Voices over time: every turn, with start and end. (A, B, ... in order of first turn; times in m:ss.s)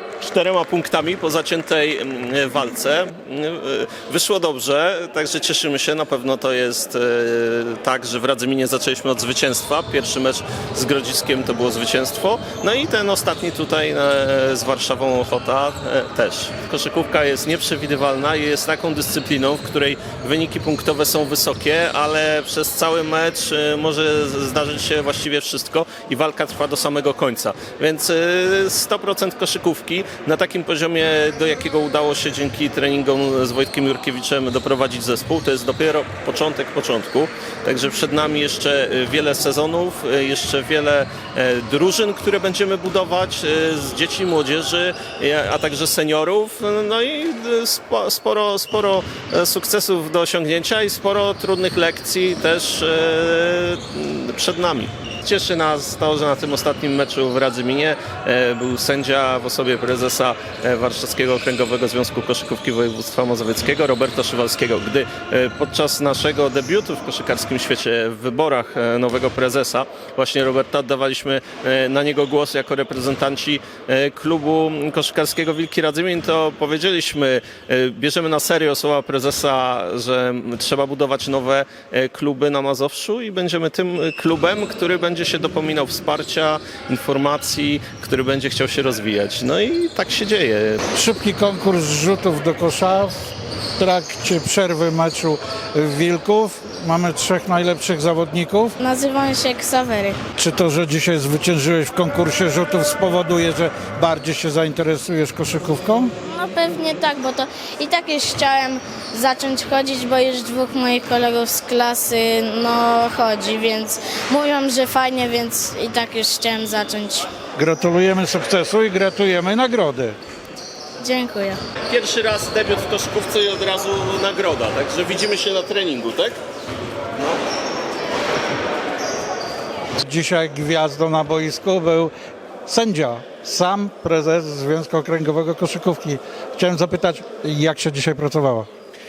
0:00.2-1:30.8 A
1:30.9-1:38.8 B
1:38.8-1:40.2 C
1:40.4-1:46.1 B
1:46.3-1:57.3 C
1:57.6-2:00.2 B
2:01.0-2:01.6 C
2:01.9-2:06.4 A
2:10.0-2:12.1 B
2:12.6-2:18.7 B